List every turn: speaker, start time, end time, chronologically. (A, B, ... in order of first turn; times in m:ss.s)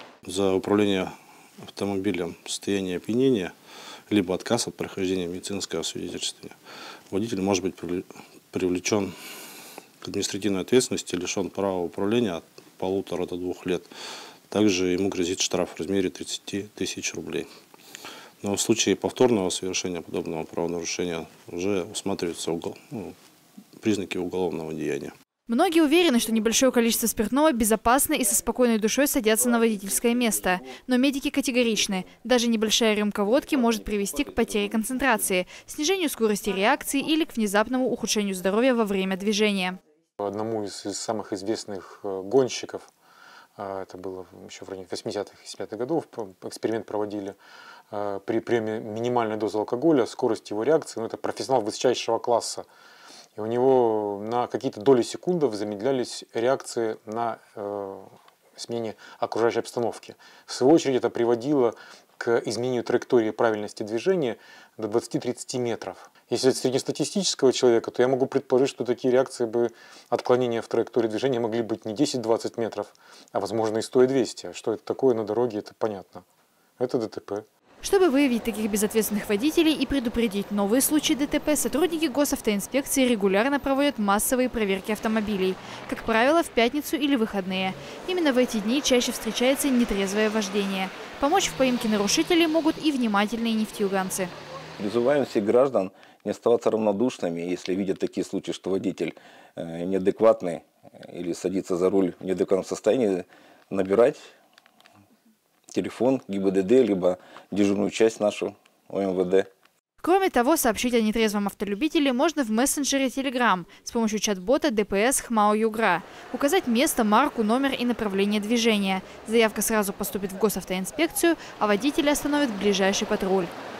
0:00.2-0:03.5 A
0:04.1-0:06.6 A
0:07.1-0:09.1 A
0:10.0-0:13.9 A
0:14.5-0:17.5 A
0:18.4-0:23.2 A
0:23.8-0:25.1 A
0:25.5-0:39.8 B
0:40.2-0:42.9 C
0:43.6-0:47.4 C
0:47.9-0:52.6 C
0:53.4-1:16.2 C
1:16.8-1:17.4 C
1:17.8-1:34.3 B
1:34.8-1:44.2 D
1:45.7-1:49.5 D
1:50.0-2:03.5 B